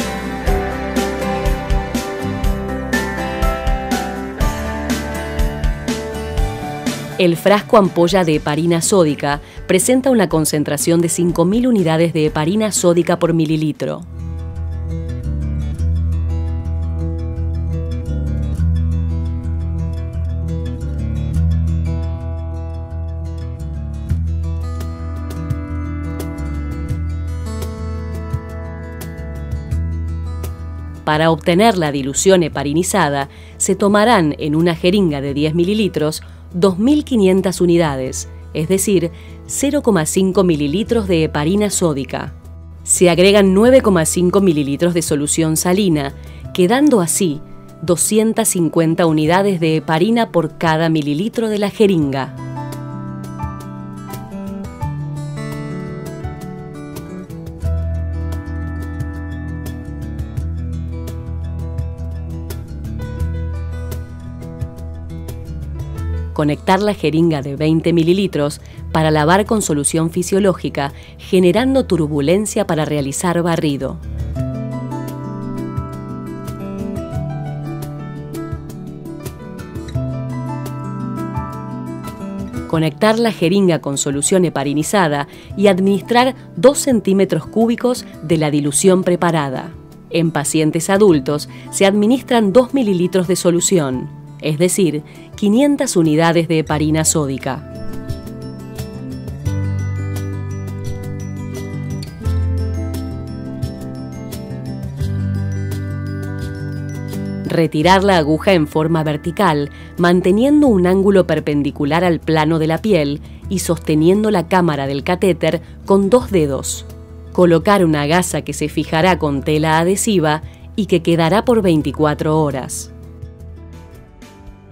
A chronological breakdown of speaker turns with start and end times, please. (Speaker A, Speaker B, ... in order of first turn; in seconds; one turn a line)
Speaker A: 7.2-14.1
Speaker A: 31.1-42.3
Speaker A: 42.9-52.4
Speaker A: 66.3-74.0
Speaker A: 82.7-97.7
Speaker A: 107.4-122.9